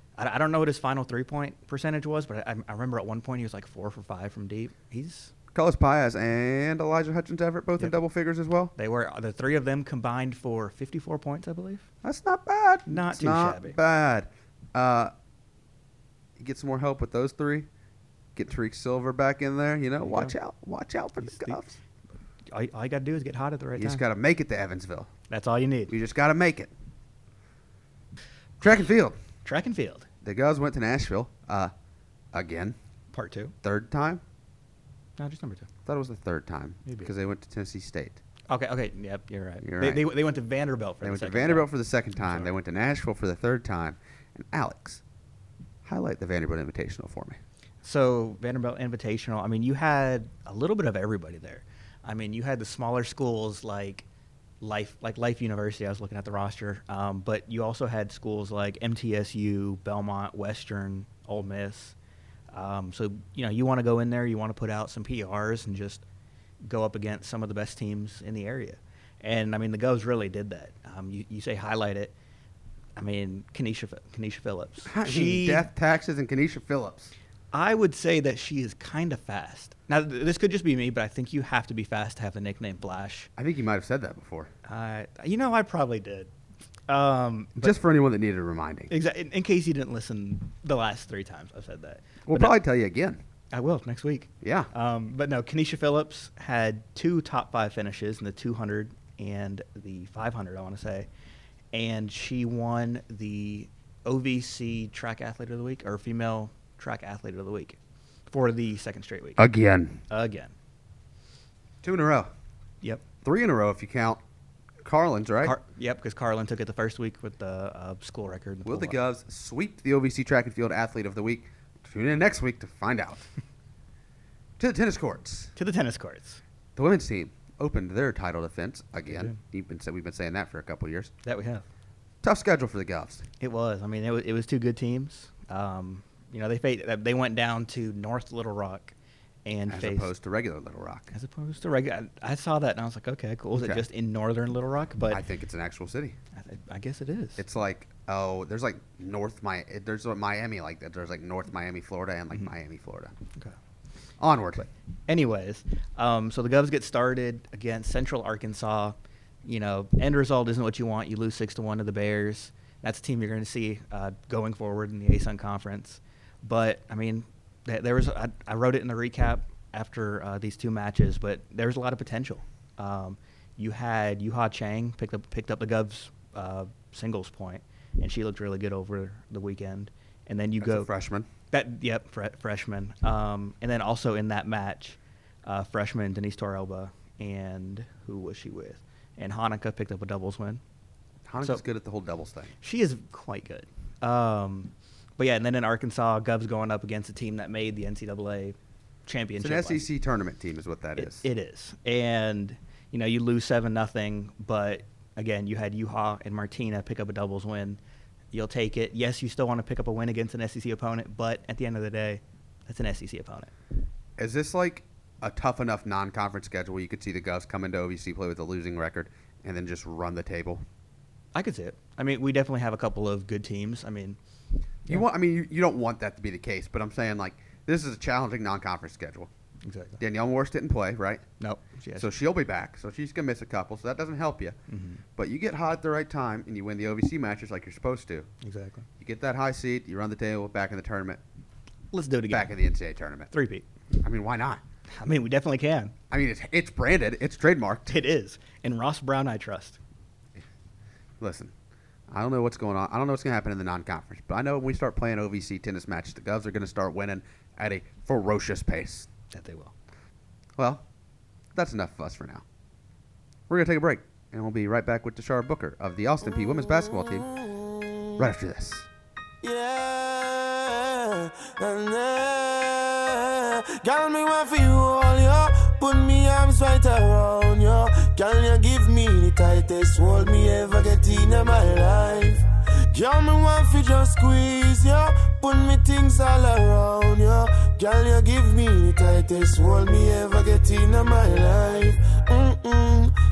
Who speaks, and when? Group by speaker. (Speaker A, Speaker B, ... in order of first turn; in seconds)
Speaker A: 0.2-5.3, 8.8-11.9, 12.9-13.8, 20.0-20.3, 21.2-21.6, 22.5-24.0, 25.3-25.9, 29.4-30.1, 33.1-33.5, 35.2-35.7, 36.9-37.1, 38.5-41.7, 42.2-42.5, 47.8-54.0, 54.6-62.0, 62.5-66.0, 66.6-72.1, 73.0-75.7, 77.5-83.3, 84.7-86.3, 86.9-87.8, 88.9-92.6, 93.5-101.1, 101.7-107.8, 108.3-109.5, 110.1-110.5, 115.4-119.0, 125.6-126.4, 129.1-129.4, 131.2-131.6, 133.4-138.9, 139.5-140.1, 141.1-145.2, 146.3-147.4, 154.6-180.9, 181.5-190.6, 192.6-199.8, 201.0-207.8, 208.3-213.5, 221.3-224.2, 229.6-230.0, 231.4-232.1, 234.7-235.0, 238.4-238.9, 241.9-242.5, 243.3-243.7, 245.0-245.9, 247.9-249.8, 259.3-259.7
Speaker B: 5.5-8.7, 12.0-15.1, 16.4-17.7, 18.4-21.8, 23.8-25.1, 25.9-26.7, 28.6-29.2, 30.2-31.7, 32.3-32.8, 33.6-34.2, 35.9-38.2, 39.6-40.1, 41.0-45.0, 45.9-47.4, 74.9-77.1, 83.4-84.5, 87.6-88.9, 92.3-93.2, 94.4-94.7, 109.4-110.0, 111.8-112.3, 113.2-114.2, 114.8-115.6, 118.7-123.3, 124.6-125.5, 126.8-131.1, 132.2-133.3, 139.7-141.1, 143.6-143.8, 145.1-146.2, 147.4-153.1, 154.2-154.7, 180.6-181.3, 191.3-192.5, 199.4-201.2, 214.2-220.6, 224.9-229.3, 230.0-231.3, 232.0-234.6, 235.2-238.3, 239.0-241.2, 242.3-243.3, 244.0-244.6, 246.1-248.0, 251.2-251.5, 252.1-259.1, 260.6-260.8, 261.6-262.4, 263.5-267.3, 268.2-268.9
Speaker C: 266.3-268.3, 269.4-293.1